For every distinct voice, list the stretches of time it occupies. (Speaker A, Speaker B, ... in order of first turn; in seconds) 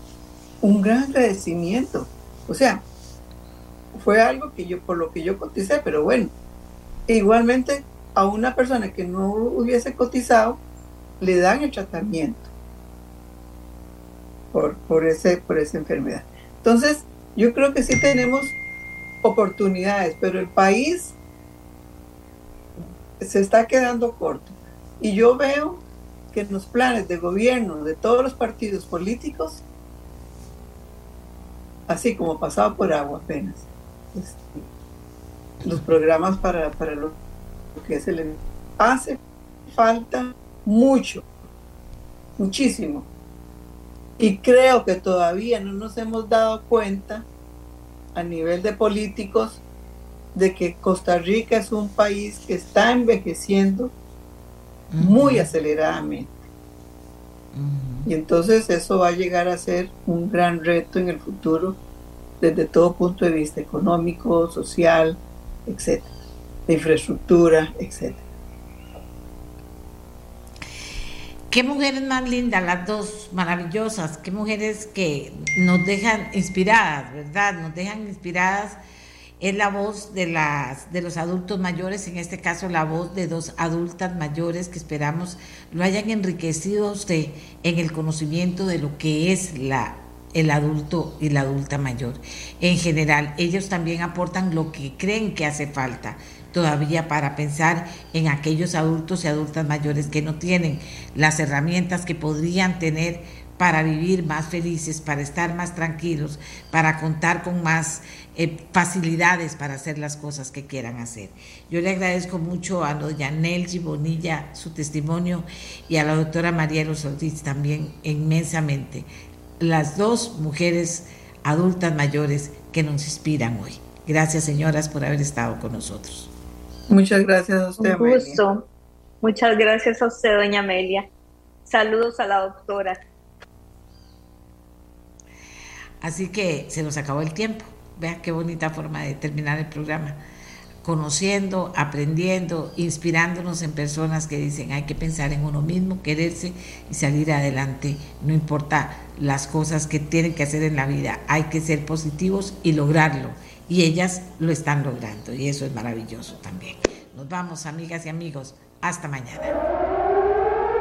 Speaker A: 0.6-2.8, 3.9-6.3, 7.1-10.6, 11.2-12.5, 14.5-18.6, 19.2-21.2, 23.2-29.6, 31.9-34.7, 35.6-37.1, 37.7-41.2, 42.4-43.1, 44.2-47.3, 48.1-49.6, 50.4-53.9, 55.0-56.4, 58.1-61.8, 62.4-66.1, 66.7-68.2, 126.9-128.4
Speaker B: 54.9-55.5, 57.5-58.1, 71.5-78.8, 79.4-119.1, 119.6-126.3, 136.0-140.2, 140.8-159.6
Speaker C: 127.8-128.7, 129.2-131.1, 131.7-133.0